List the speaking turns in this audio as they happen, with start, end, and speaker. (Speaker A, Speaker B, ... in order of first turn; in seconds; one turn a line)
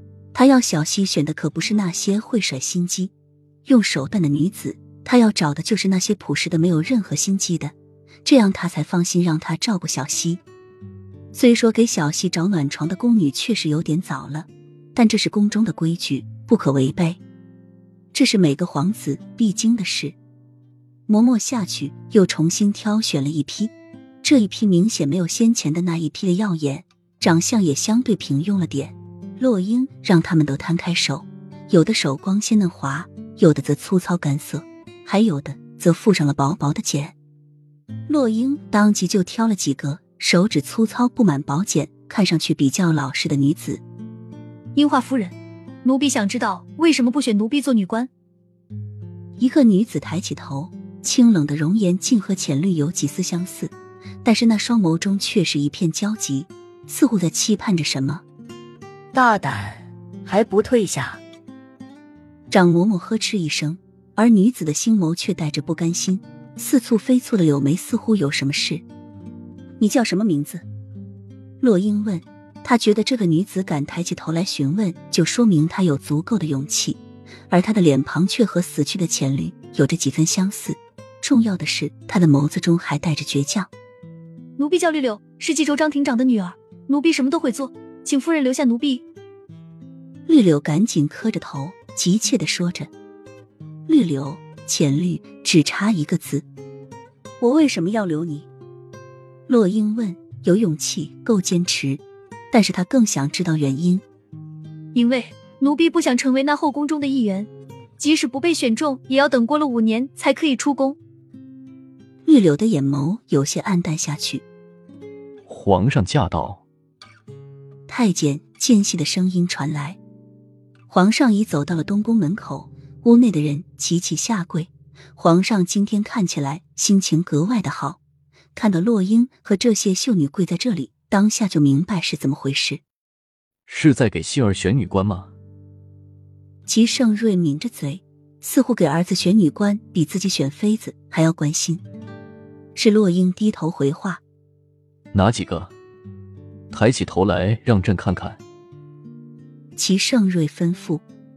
Speaker A: 0.3-3.1
Speaker A: 3.6-7.7
Speaker A: 8.2-10.4
Speaker A: 11.3-17.2
Speaker A: 18.1-20.1
Speaker A: 21.1-37.1
Speaker A: 38.1-43.8
Speaker B: 44.7-48.1
Speaker A: 49.4-58.2
Speaker C: 59.1-61.2
Speaker A: 62.5-68.8
Speaker A: 69.8-70.6
Speaker A: 71.6-83.7
Speaker B: 84.6-89.0
Speaker A: 90.3-92.9
Speaker A: 93.9-96.5
Speaker A: 97.4-98.5
Speaker A: 99.5-104.0
Speaker B: 104.9-111.0
Speaker A: 112.2-114.4
Speaker D: 115.5-116.6
Speaker A: 117.9-120.0
Speaker A: 120.9-128.0
Speaker A: 128.5-132.8
Speaker D: 133.7-135.3
Speaker A: 136.7-141.8
Speaker A: 142.7-144.2
Speaker D: 145.1-145.7
Speaker D: 146.7-148.4
Speaker A: 149.8-151.0